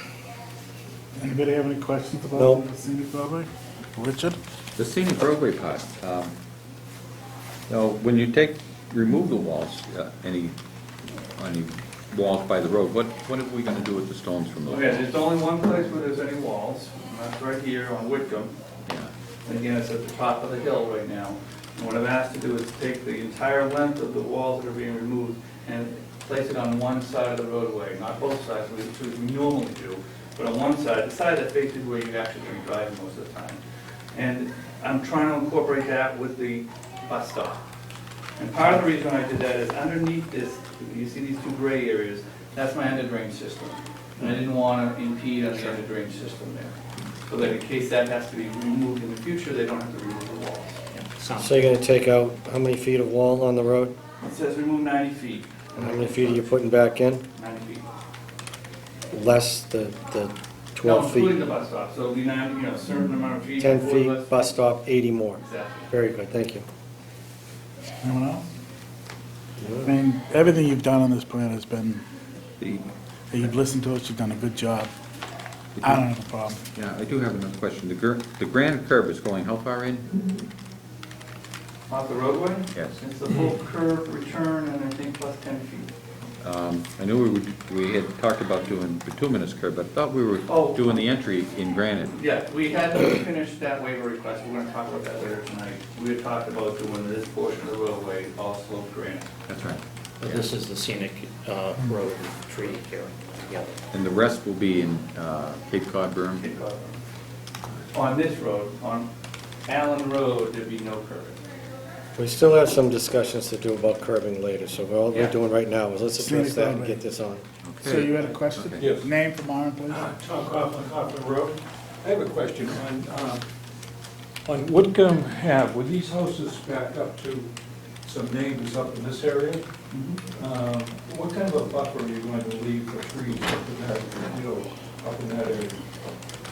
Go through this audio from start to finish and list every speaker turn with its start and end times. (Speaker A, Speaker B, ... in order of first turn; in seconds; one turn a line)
Speaker A: 1.2-4.4
Speaker B: 2.4-2.7
Speaker C: 4.8-6.3
Speaker C: 7.7-10.6
Speaker C: 11.3-15.0
Speaker D: 14.7-18.5
Speaker C: 18.8-19.1
Speaker D: 19.4-33.6
Speaker D: 34.1-37.6
Speaker D: 38.4-46.7
Speaker E: 44.2-44.5
Speaker D: 47.3-50.8
Speaker E: 50.9-51.6
Speaker B: 51.4-54.0
Speaker D: 54.2-56.6
Speaker B: 55.8-57.2
Speaker D: 57.3-57.9
Speaker B: 59.1-61.5
Speaker D: 60.8-64.6
Speaker B: 63.6-66.7
Speaker D: 65.4-65.9
Speaker A: 68.0-68.4
Speaker B: 69.6-69.9
Speaker A: 69.8-72.0
Speaker A: 73.3-74.9
Speaker A: 75.8-76.7
Speaker C: 75.8-76.1
Speaker C: 76.7-80.2
Speaker D: 81.9-85.9
Speaker C: 86.4-92.1
Speaker D: 90.5-91.0
Speaker D: 92.1-99.3
Speaker C: 99.5-100.5
Speaker E: 100.2-103.7
Speaker C: 103.9-106.5
Speaker D: 106.4-107.0
Speaker D: 107.9-109.1
Speaker D: 109.7-111.4
Speaker B: 112.2-117.4
Speaker A: 116.2-117.0
Speaker C: 117.6-118.9
Speaker A: 117.8-120.1
Speaker F: 118.8-119.1
Speaker F: 119.9-123.4
Speaker F: 124.5-127.5
Speaker F: 128.0-129.6
Speaker D: 129.9-130.4
Speaker F: 130.3-135.8